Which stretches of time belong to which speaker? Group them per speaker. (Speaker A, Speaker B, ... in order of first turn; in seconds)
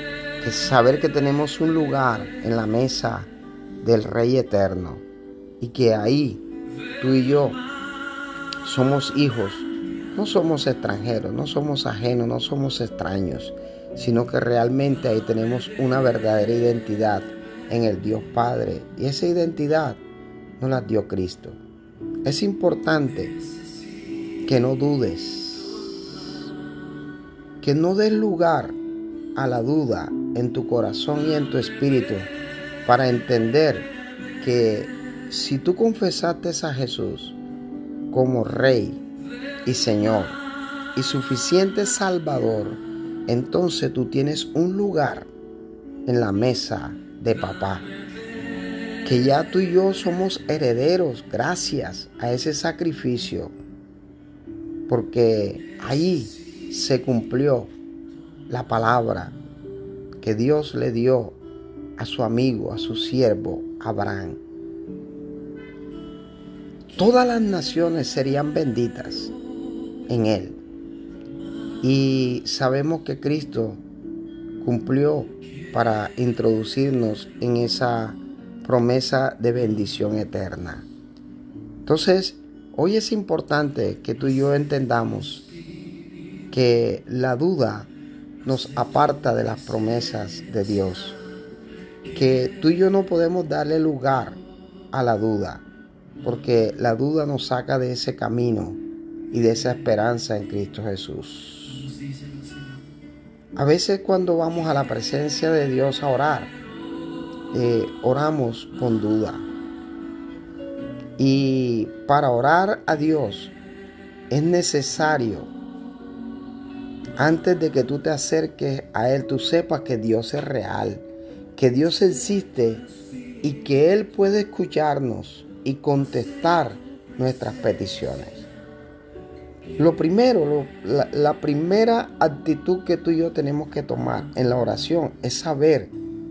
Speaker A: 0.4-5.0, 5.6-6.4, 7.0-7.6, 8.6-20.0, 20.6-21.6, 22.2-23.4, 24.4-26.0, 27.6-28.8, 29.3-32.3, 32.8-33.9, 34.4-37.4, 38.1-39.0, 39.6-40.4, 40.9-45.3, 46.0-47.9, 49.0-53.5, 54.9-57.7, 58.5-59.4, 60.2-61.4, 62.0-64.4, 66.9-69.3, 70.1-70.6, 71.8-73.8, 74.6-80.9, 81.8-85.5, 86.5-87.9, 88.4-91.2, 92.1-94.4, 94.9-95.6, 96.2-98.8, 99.3-101.9, 103.5-106.5, 107.5-109.5, 111.2-113.5, 114.3-115.5, 117.2-122.8, 123.4-128.5, 129.8-135.9